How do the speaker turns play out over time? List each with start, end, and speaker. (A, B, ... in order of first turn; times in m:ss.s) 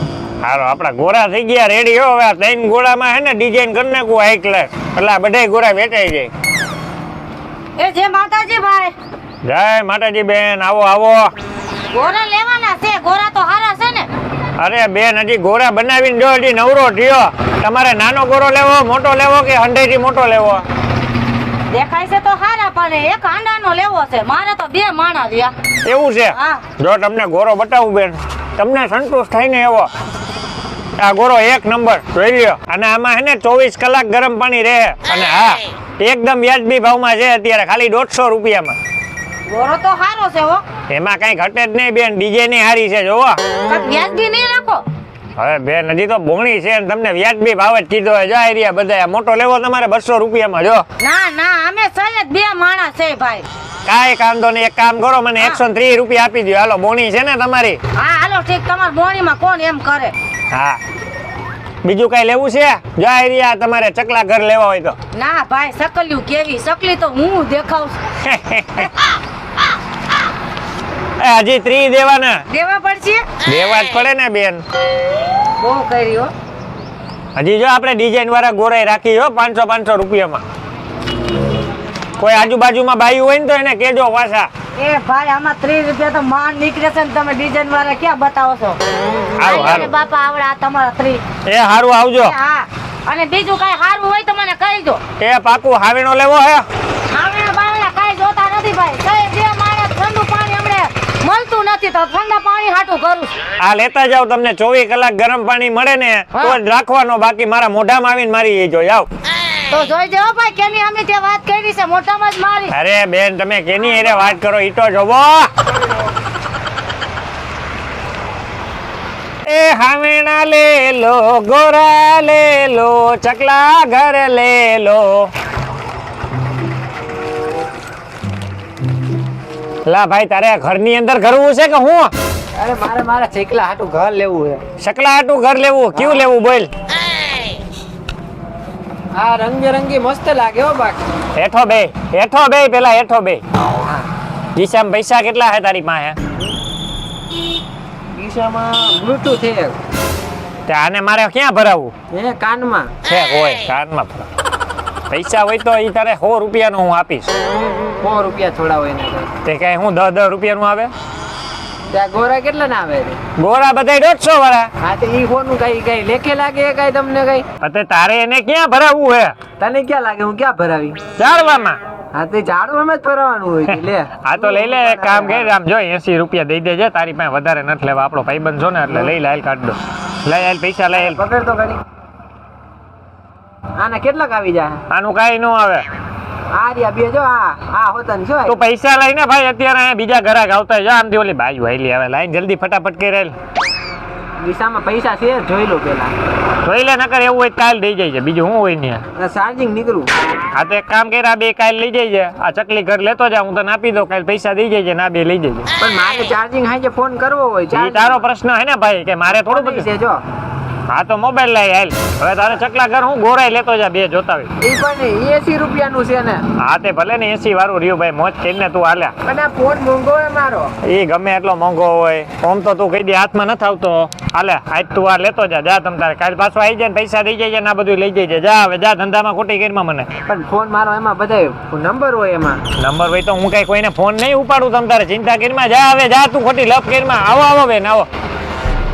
0:00.4-0:06.3 A
0:07.8-0:09.0 B
0:09.4-0:11.3 A
0:11.9-0:14.1 B
0:14.6-0:20.6 A
0:21.7-0:25.5 B
0:25.8-0:29.9 A
0:26.3-0:26.6 B
0:31.0-0:38.8 A
0:39.5-0:40.6 B
0:40.9-0:43.4 A
0:43.7-0:44.8 B
0:45.4-0:50.8 A
0:51.0-0:53.5 B
0:53.9-0:57.8 A
0:58.0-1:00.1 B
1:00.5-1:00.8 A
1:01.8-1:05.0 A
1:05.1-1:08.0 B
1:08.2-1:08.9 A
1:11.2-1:12.4 A
1:12.5-1:13.3 B
1:13.4-1:14.6 A
1:15.6-1:16.3 B
1:17.4-1:20.4 A
1:22.2-1:24.5 A
1:24.8-1:28.8 B
1:29.4-1:29.9 A
1:29.4-1:31.2 B
1:31.5-1:32.3 A
1:32.2-1:35.0 B
1:35.2-1:36.7 A
1:37.1-1:43.3 B
1:43.6-1:49.1 A
1:49.7-1:52.7 B
1:52.7-1:55.5 A
1:59.5-2:05.3 A
2:09.9-2:12.1 A
2:12.6-2:14.6 C
2:14.8-2:16.7 A
2:16.0-2:16.3 C
2:19.2-2:21.0 C
2:21.4-2:23.4 A
2:24.6-2:26.2 A
2:28.1-2:29.8 C
2:30.7-2:31.9 A
2:32.1-2:32.9 C
2:33.1-2:34.3 A
2:35.1-2:37.3 A
2:38.0-2:39.3 C
2:39.4-2:40.9 A
2:41.9-2:43.2 C
2:43.4-2:44.7 A
2:44.8-2:47.4 C
2:47.6-2:49.3 A
2:49.6-2:51.0 C
2:51.2-2:51.8 A
2:52.1-2:55.5 C
2:53.7-3:01.2 A
3:01.0-3:01.8 C
3:03.8-3:04.8 C
3:04.9-3:05.8 A
3:06.5-3:08.6 C
3:08.5-3:13.3 A
3:14.4-3:16.1 C
3:16.6-3:19.0 A
3:19.2-3:20.1 C
3:20.5-3:25.7 A
3:25.8-3:28.2 C
3:27.7-3:29.9 A
3:29.3-3:30.2 C
3:30.9-3:34.5 A
3:34.6-3:36.4 C
3:36.6-3:39.1 A
3:39.2-3:40.7 C
3:40.8-3:50.1 A
3:50.2-3:52.6 C
3:52.8-3:58.1 A